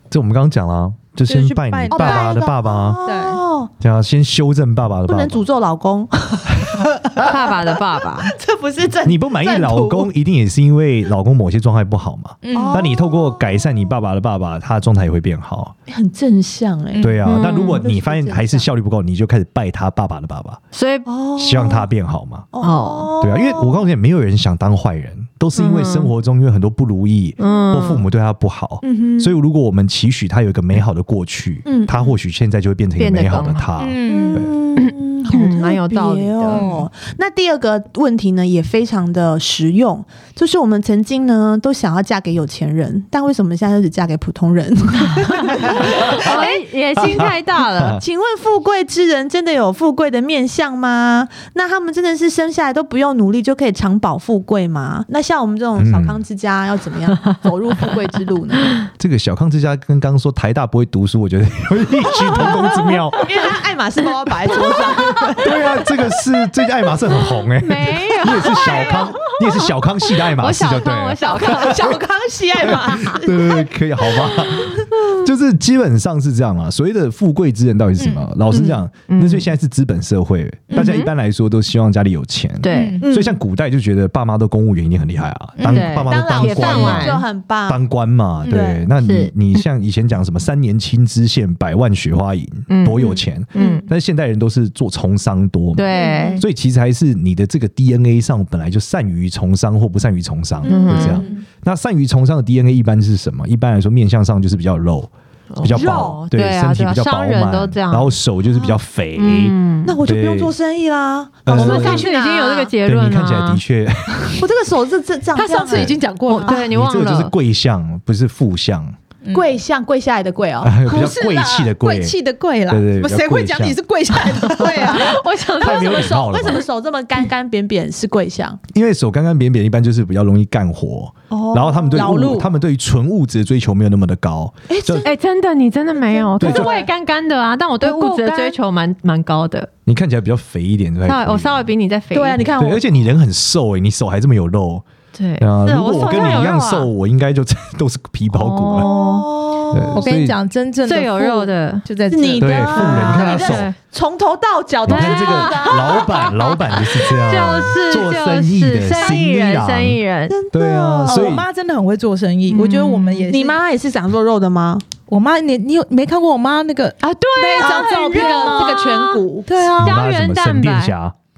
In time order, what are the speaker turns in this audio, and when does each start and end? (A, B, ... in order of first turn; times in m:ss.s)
0:00.1-0:03.0 A
0:01.3-0:02.4 B
0:01.9-0:03.7 C
0:03.1-0:03.4 B
0:03.8-0:05.5 A
0:05.1-0:10.1 C
0:07.2-0:08.3 D
0:09.0-0:15.7 A
0:12.4-0:12.9 B
0:12.5-0:13.5 C
0:15.9-0:18.7 C
0:16.9-0:17.2 B
0:17.0-0:20.6 A
0:17.2-0:17.8 D
0:20.7-0:21.1 D
0:21.1-0:21.9 C
0:21.4-0:22.5 A
0:22.5-0:23.8 C
0:22.6-0:23.1 D
0:23.2-0:34.5 A
0:25.6-0:26.1 D
0:27.4-0:28.0 D
0:28.8-0:29.3 C
0:31.6-0:32.1 C
0:33.0-0:33.7 D
0:33.8-0:34.4 B
0:34.1-0:46.6 C
0:34.8-0:36.6 D
0:36.5-0:36.9 B
0:45.6-0:48.0 D
0:45.7-0:46.3 A
0:47.0-0:48.0 A
0:48.0-0:58.8 C
0:55.8-0:56.2 A
0:59.0-1:03.5 A
1:02.4-1:06.0 C
1:05.4-1:12.0 A
1:07.6-1:12.0 D
1:08.5-1:09.1 C
1:11.2-1:14.9 C
1:12.6-1:50.5 A
1:18.0-1:18.3 B
1:18.5-1:18.8 C
1:19.1-1:19.5 D
1:20.7-1:21.0 B
1:20.7-1:21.1 D
1:22.6-1:23.0 D
1:22.7-1:23.0 B
1:23.0-1:23.4 C
1:25.6-1:25.9 B
1:25.7-1:27.2 D
1:26.0-1:27.8 C
1:28.5-1:28.9 C
1:29.0-1:29.6 D
1:32.7-1:33.8 D
1:33.6-1:33.8 C
1:35.8-1:36.4 D
1:35.9-1:36.4 C
1:40.6-1:41.4 C
1:40.7-1:41.3 D
1:45.5-1:48.2 D
1:45.7-1:46.2 C
1:48.5-1:48.8 C
1:49.2-1:50.0 D
1:49.8-1:52.7 C
1:51.4-1:52.1 A
1:51.5-1:53.6 D
1:52.8-1:54.5 A
1:54.4-1:56.0 C
1:55.4-1:56.6 B
1:56.3-1:57.3 D
1:56.5-1:59.0 A
1:59.3-2:00.8 C
2:00.6-2:02.2 A
2:00.8-2:05.2 B
2:02.7-2:04.9 A
2:04.6-2:06.7 D
2:05.6-2:06.6 A
2:05.6-2:08.6 C
2:08.7-2:15.1 A
2:11.3-2:12.4 C
2:11.9-2:12.5 B
2:14.7-2:15.1 C
2:15.0-2:19.7 D
2:16.0-2:16.9 C
2:16.4-2:16.7 A
2:17.8-2:18.6 C
2:19.9-2:21.7 A
2:21.1-2:22.5 D
2:22.1-2:22.9 C
2:22.6-2:24.8 A
2:25.2-2:26.9 D
2:25.4-2:28.9 A
2:28.3-2:29.3 D
2:28.8-2:30.0 C
2:29.7-2:30.4 A
2:29.9-2:32.7 B
2:30.8-2:31.9 D
2:32.1-2:36.6 C
2:32.4-2:33.7 A
2:32.7-2:33.8 D
2:34.9-2:40.0 A
2:34.9-2:40.4 D
2:40.3-2:41.4 C
2:40.5-2:41.5 A
2:41.1-2:43.6 B
2:42.5-2:43.3 D
2:43.3-2:44.8 C
2:45.1-2:48.7 B
2:47.0-2:49.3 D
2:47.6-2:49.5 C
2:49.5-2:50.0 B
2:49.8-2:51.2 A
2:49.8-2:50.9 D